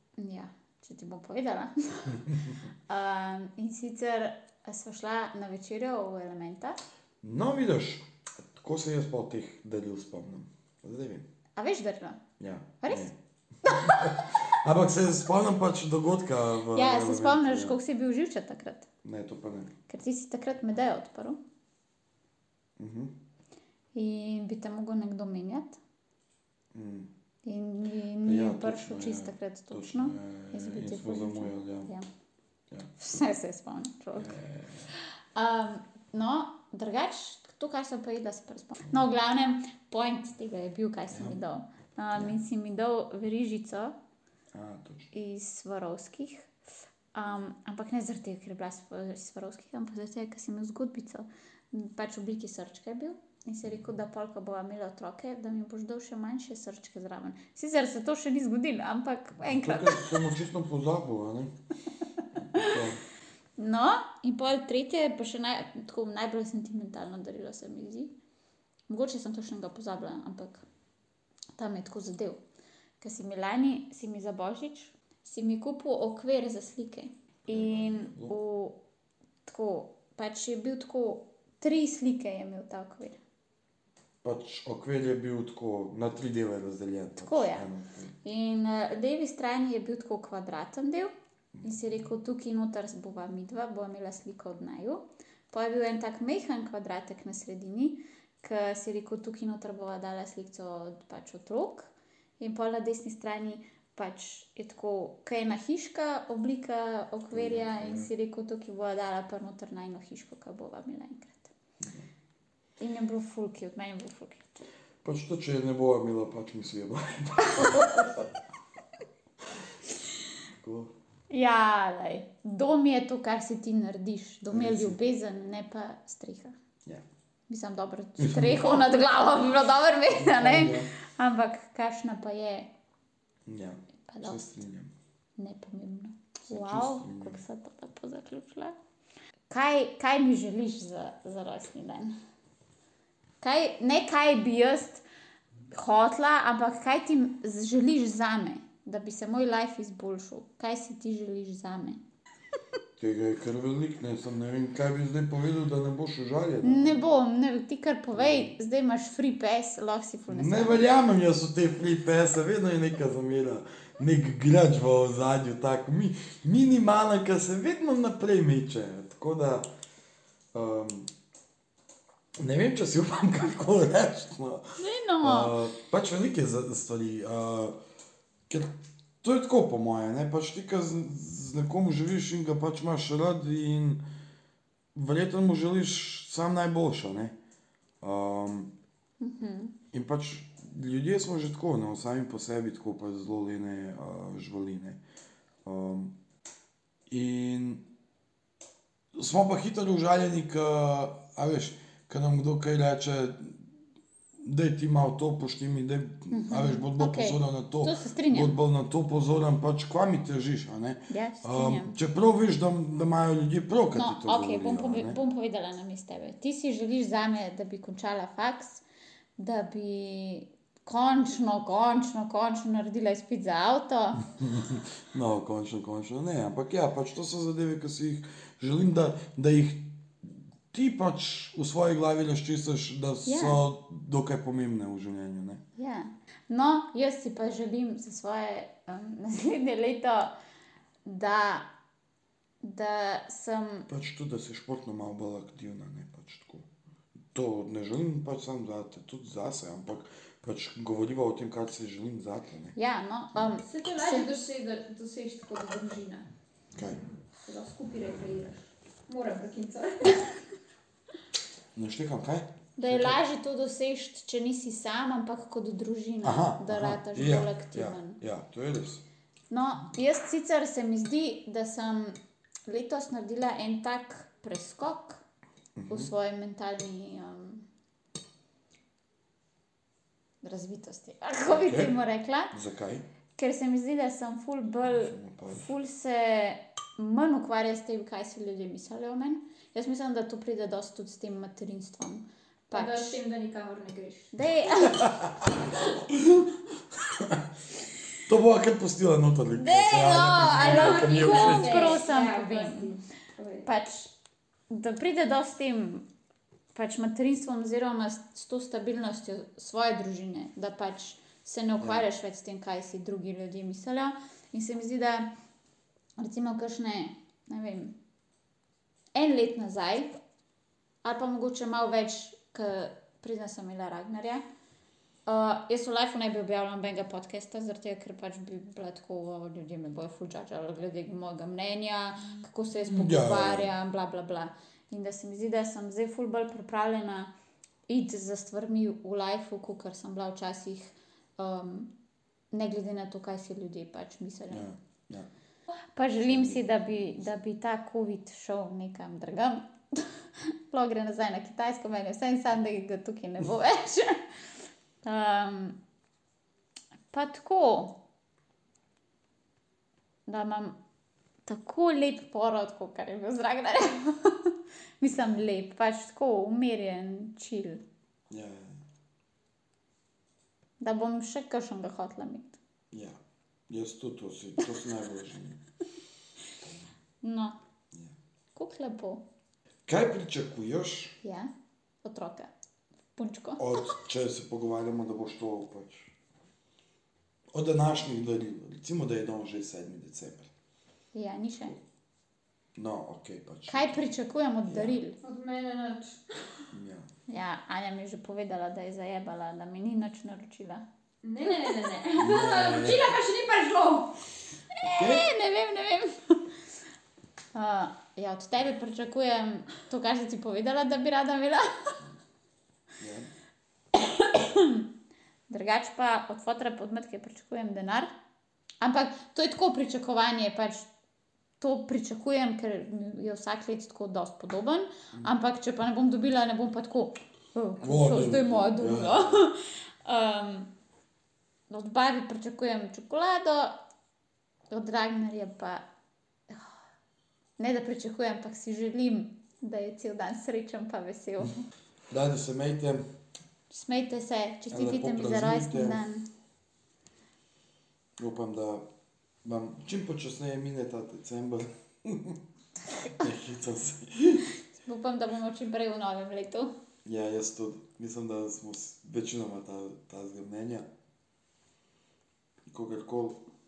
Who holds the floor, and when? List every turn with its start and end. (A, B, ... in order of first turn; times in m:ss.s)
0:00.2-0:06.8 A
0:07.2-0:11.2 B
0:11.6-0:12.2 A
0:12.4-0:17.8 B
0:12.8-0:13.1 A
0:13.6-0:14.4 A
0:16.7-0:18.9 A
0:19.0-0:19.7 B
0:19.9-0:21.4 A
0:22.8-0:23.1 B
0:24.0-0:25.8 A
0:26.7-0:27.1 B
0:27.4-0:32.1 A
0:28.2-0:31.9 B
0:33.0-0:34.4 A
0:34.2-0:34.9 B
0:35.4-0:43.9 A
0:41.1-0:41.4 B
0:44.5-0:45.1 B
0:45.1-0:46.5 A
0:47.2-1:00.3 A
0:59.4-1:01.5 B
1:02.4-1:03.0 B
1:03.6-1:08.1 A
1:08.9-1:10.6 A
1:11.6-1:12.4 A
1:13.0-1:18.8 A
1:17.5-1:18.4 B
1:19.5-1:23.2 A
1:24.2-1:28.1 B
1:27.2-1:27.7 A
1:28.2-1:31.1 A
1:31.6-1:35.0 A
1:35.5-1:51.5 A
1:47.3-1:48.1 B
1:52.8-1:54.5 A
1:55.0-1:58.3 B
2:00.6-2:00.9 B
2:01.3-2:06.5 A
2:04.5-2:05.0 B
2:07.5-2:12.7 A
2:08.2-2:08.9 B
2:10.1-2:10.9 B
2:13.5-2:14.9 B
2:14.1-2:14.4 A
2:15.4-2:18.8 A
2:16.5-2:17.4 B
2:19.5-2:22.1 A
2:23.4-2:25.0 A
2:25.7-2:32.0 A
2:33.0-2:37.0 B
2:36.6-2:40.8 A
2:38.2-2:38.5 B
2:40.3-2:49.7 B
2:50.5-2:51.1 B
2:52.4-2:54.7 B
2:54.8-2:55.6 A
2:55.2-2:57.8 B
2:58.5-3:04.0 B
3:05.0-3:07.4 B
3:08.0-3:08.7 B
3:09.2-3:09.8 A
3:09.9-3:15.0 B
3:15.6-3:16.1 B
3:17.1-3:17.8 B
3:19.2-3:23.6 B
3:24.4-3:35.2 B
3:26.3-3:28.5 A
3:31.1-3:32.0 A
3:33.9-3:38.8 A
3:39.4-3:44.3 A
3:44.4-3:55.6 B
3:53.2-3:53.6 A
3:55.8-4:00.3 A
4:01.0-4:01.7 A
4:02.6-4:03.9 A
4:03.9-4:06.7 B
4:07.3-4:12.8 B
4:12.8-4:14.5 A
4:13.6-4:16.3 C
4:16.7-4:17.0 B
4:17.5-4:20.3 C
4:21.8-4:23.2 B
4:22.8-4:28.2 A
4:26.2-4:29.0 B
4:29.5-4:32.2 A
4:32.7-4:35.2 A
4:35.8-4:36.1 B
4:35.9-4:37.7 A
4:40.4-4:42.5 A
4:41.5-4:42.0 B
4:42.5-4:43.1 B
4:43.4-4:53.2 A
4:44.9-4:45.7 B
4:52.7-4:54.4 C
4:54.3-4:55.2 A
4:54.9-4:55.5 B
4:55.6-4:56.0 C
4:56.1-4:56.5 B
4:57.2-4:57.4 B
4:58.2-5:02.0 B
4:59.6-5:02.9 A
5:00.5-5:03.7 C
5:03.6-5:04.1 A
5:04.7-5:06.0 A
5:06.7-5:15.3 A
5:11.8-5:12.1 B
5:16.2-5:17.9 A
5:19.2-5:20.1 A
5:21.0-5:24.4 A
5:25.3-5:37.3 A
5:32.9-5:33.7 B
5:37.9-5:41.9 A
5:42.5-5:44.7 A
5:44.5-5:45.3 B
5:45.7-5:54.2 A
5:46.3-5:46.9 B
5:55.0-5:55.8 A
5:57.1-5:58.0 A
6:00.3-6:00.8 A
6:01.5-6:07.8 A
6:08.3-6:08.8 B
6:10.8-6:12.6 A
6:12.9-6:13.2 B
6:13.7-6:15.6 B
6:17.2-6:17.6 A
6:18.6-6:19.2 A
6:19.9-6:21.2 B
6:21.2-6:21.5 A
6:22.0-6:22.5 A
6:23.2-6:23.6 A
6:23.6-6:26.1 B
6:27.5-6:30.5 B
6:31.1-6:31.8 A
6:32.8-6:34.0 B
6:33.7-6:35.2 A
6:34.7-6:35.0 B
6:35.2-6:36.7 C
6:36.7-6:37.1 B
6:37.3-6:40.8 A
6:41.2-6:44.2 C
6:41.4-6:41.8 A
6:42.2-6:43.2 B
6:44.7-6:46.6 A
6:44.9-6:45.3 B
6:47.5-6:52.0 A
6:53.0-6:53.3 B
6:53.9-6:54.9 A
6:55.5-6:58.1 A
6:58.8-7:00.9 A
7:01.6-7:10.7 A
7:07.8-7:09.4 B
7:11.7-7:13.7 A
7:14.7-7:15.8 A
7:17.6-7:21.7 A
7:22.1-7:23.0 B
7:23.7-7:26.3 A
7:24.7-7:26.0 B
7:28.2-7:28.9 B
7:29.4-7:32.4 B
7:33.0-7:34.5 B
7:34.8-7:36.7 A
7:37.0-7:40.9 B
7:42.7-7:43.4 B